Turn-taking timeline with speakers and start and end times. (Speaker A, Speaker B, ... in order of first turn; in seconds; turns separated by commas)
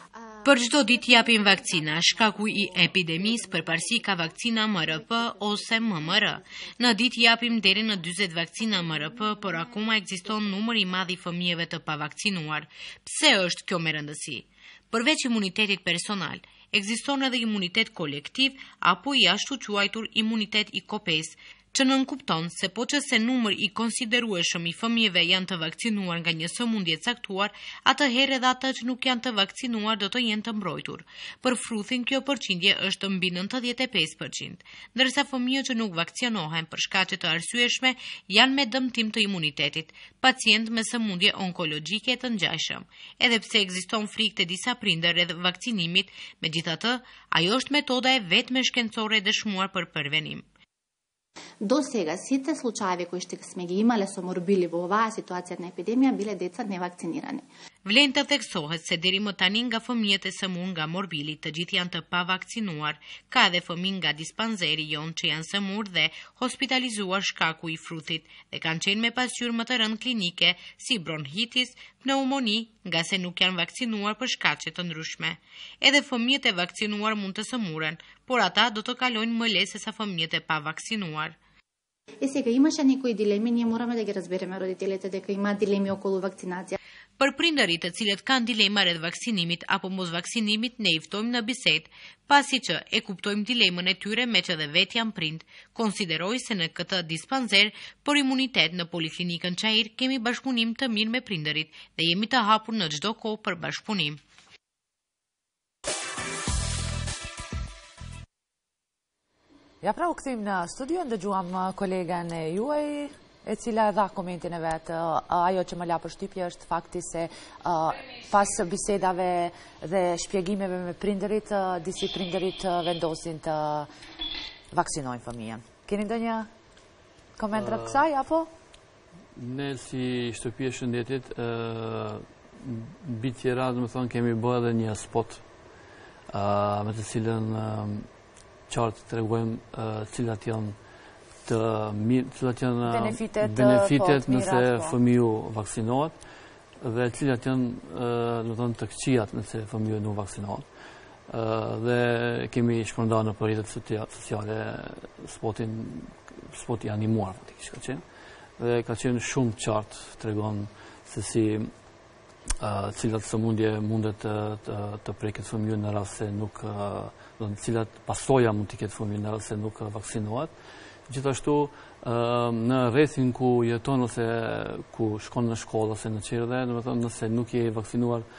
Speaker A: 0.4-50.4, Speaker B: 51.6-57.4, Speaker A: 57.8-81.4, Speaker B: 82.2-86.8, Speaker A: 87.2-104.2, Speaker C: 109.8-123.9, Speaker C: 124.7-126.5, Speaker C: 127.4-128.5, Speaker D: 127.5-128.0, Speaker D: 129.3-135.4, Speaker D: 136.3-138.1, Speaker D: 138.7-140.8, Speaker D: 141.4-146.1, Speaker C: 142.8-144.9, Speaker D: 146.8-150.6, Speaker D: 151.3-158.0, Speaker D: 158.6-161.7, Speaker D: 162.6-170.5, Speaker D: 171.1-178.2